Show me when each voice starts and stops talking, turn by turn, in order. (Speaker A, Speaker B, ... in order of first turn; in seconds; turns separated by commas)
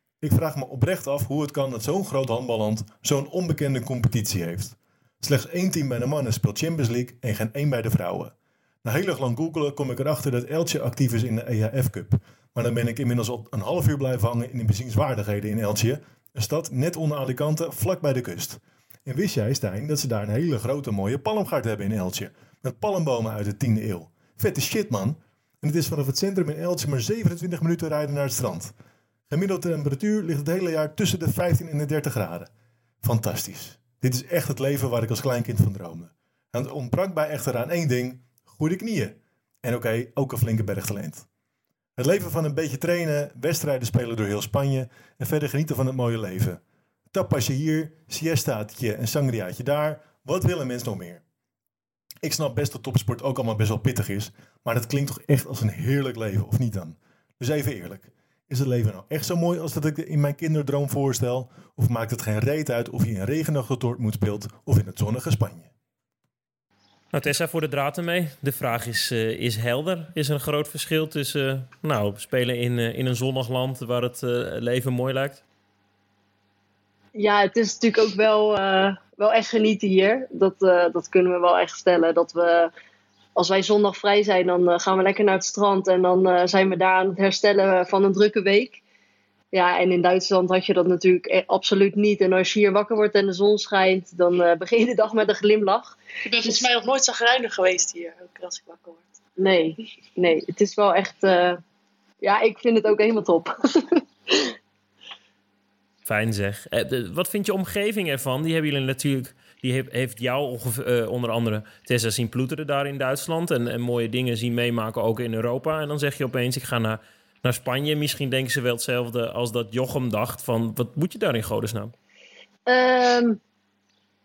Speaker A: 0.2-28.7, Speaker A: 29.3-32.5, Speaker A: 33.0-41.3, Speaker A: 42.0-46.6, Speaker A: 47.1-51.2, Speaker A: 52.2-65.7, Speaker B: 67.1-75.4, Speaker C: 77.1-82.7, Speaker C: 83.4-88.8, Speaker C: 89.5-96.7, Speaker D: 96.3-99.2, Speaker C: 99.4-101.6, Speaker C: 102.2-104.5, Speaker B: 106.1-121.9, Speaker C: 122.7-123.4